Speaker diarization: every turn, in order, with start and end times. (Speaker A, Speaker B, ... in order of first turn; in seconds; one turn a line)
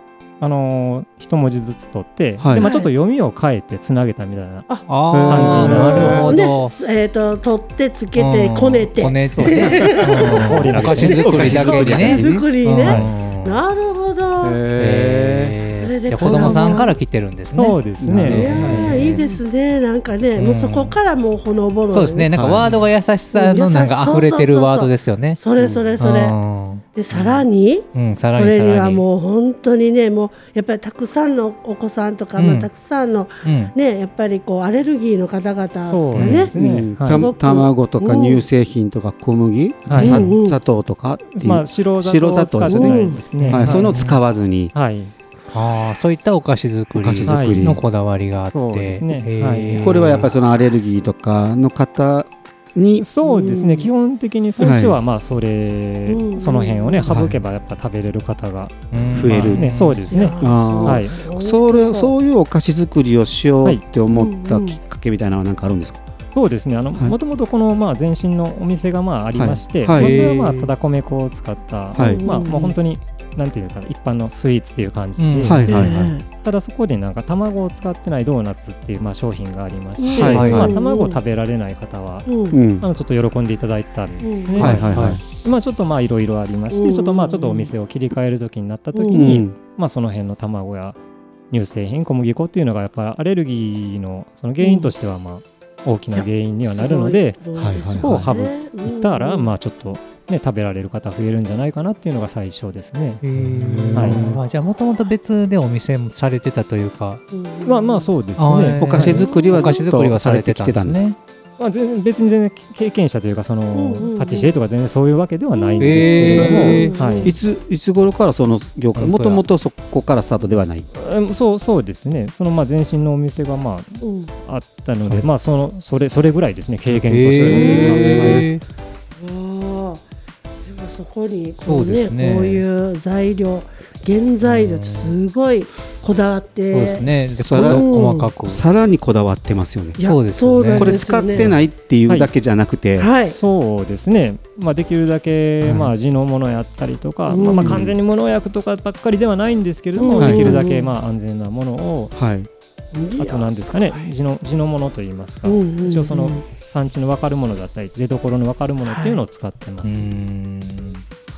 Speaker A: 0.4-4.7
Speaker B: 2.4-2.6
Speaker C: 2.5-2.9
Speaker D: 4.9-6.7
Speaker B: 5.1-6.3
Speaker A: 5.3-6.2
Speaker C: 5.5-10.6
Speaker D: 8.2-13.6
Speaker A: 9.3-11.6
Speaker B: 9.6-10.0
Speaker B: 10.7-12.5
Speaker C: 11.2-14.6
Speaker A: 12.8-13.1
Speaker B: 14.4-15.6
Speaker D: 14.8-19.3
Speaker C: 15.8-17.0
Speaker B: 16.2-16.7
Speaker A: 17.5-19.0
Speaker B: 18.0-18.9
Speaker C: 18.3-22.3
Speaker D: 20.4-21.0
Speaker D: 21.9-25.4
Speaker B: 22.4-22.9
Speaker C: 23.3-26.4
Speaker B: 25.6-25.9
Speaker D: 26.0-29.1
Speaker C: 26.9-38.5
Speaker D: 32.4-32.7
Speaker D: 33.4-33.7
Speaker A: 35.8-37.3
Speaker D: 36.1-36.5
Speaker B: 36.5-43.0
Speaker A: 39.9-40.3
Speaker D: 40.0-40.3
Speaker C: 40.0-40.6
Speaker A: 41.3-44.0
Speaker C: 42.6-43.2
Speaker D: 43.4-44.2
Speaker B: 43.5-44.7
Speaker A: 44.7-45.1
Speaker D: 45.5-50.3
Speaker B: 47.0-47.8
Speaker A: 47.3-47.8
Speaker A: 48.4-50.2
Speaker B: 49.8-53.1
Speaker A: 53.0-61.2
Speaker C: 53.2-53.9
Speaker B: 54.6-55.0
Speaker C: 56.1-57.1
Speaker B: 57.1-57.4
Speaker D: 58.9-60.1
Speaker B: 59.1-59.7
Speaker C: 60.1-62.1
Speaker B: 60.4-66.0
Speaker C: 64.1-64.8
Speaker A: 66.3-91.0
Speaker B: 69.3-70.2
Speaker D: 70.0-70.7
Speaker C: 72.0-72.8
Speaker B: 72.0-72.2
Speaker D: 75.2-75.9
Speaker B: 75.5-76.1
Speaker C: 75.7-76.3
Speaker C: 80.0-81.2
Speaker B: 80.1-80.7
Speaker D: 80.3-80.7
Speaker C: 82.3-82.6
Speaker B: 82.5-82.9
Speaker C: 84.2-84.8
Speaker B: 84.6-85.2
Speaker D: 84.7-85.2
Speaker C: 86.7-87.7
Speaker C: 88.9-89.4
Speaker B: 89.1-89.5
Speaker A: 91.5-97.4
Speaker C: 94.6-94.9
Speaker C: 96.2-99.5
Speaker B: 97.6-98.3
Speaker A: 98.0-103.2
Speaker D: 103.2-107.2
Speaker B: 103.3-104.4
Speaker A: 103.9-104.2
Speaker C: 107.3-108.1
Speaker A: 107.7-109.2
Speaker D: 108.4-111.2
Speaker B: 108.8-111.0
Speaker C: 109.0-109.8
Speaker A: 111.6-117.3
Speaker C: 113.7-114.5
Speaker C: 115.5-117.3
Speaker D: 115.8-116.9
Speaker B: 116.2-120.9
Speaker D: 119.0-119.4
Speaker A: 120.9-128.5
Speaker C: 124.0-124.3
Speaker D: 126.9-128.6
Speaker B: 127.4-128.4
Speaker C: 127.5-128.3
Speaker C: 129.2-130.0
Speaker C: 130.7-138.3
Speaker D: 131.7-132.7
Speaker D: 134.4-135.2
Speaker D: 136.7-138.6
Speaker B: 137.4-137.9
Speaker B: 138.5-140.0
Speaker C: 140.0-141.6
Speaker D: 140.0-141.0
Speaker B: 140.8-143.1
Speaker C: 143.0-143.4
Speaker A: 143.2-152.1
Speaker B: 145.6-145.9
Speaker C: 147.3-147.8
Speaker B: 147.6-147.9
Speaker C: 150.0-150.9
Speaker B: 150.2-150.6
Speaker B: 152.2-152.5
Speaker C: 152.9-154.1
Speaker A: 153.2-160.1
Speaker C: 155.5-156.4
Speaker C: 158.9-159.2
Speaker D: 159.8-161.0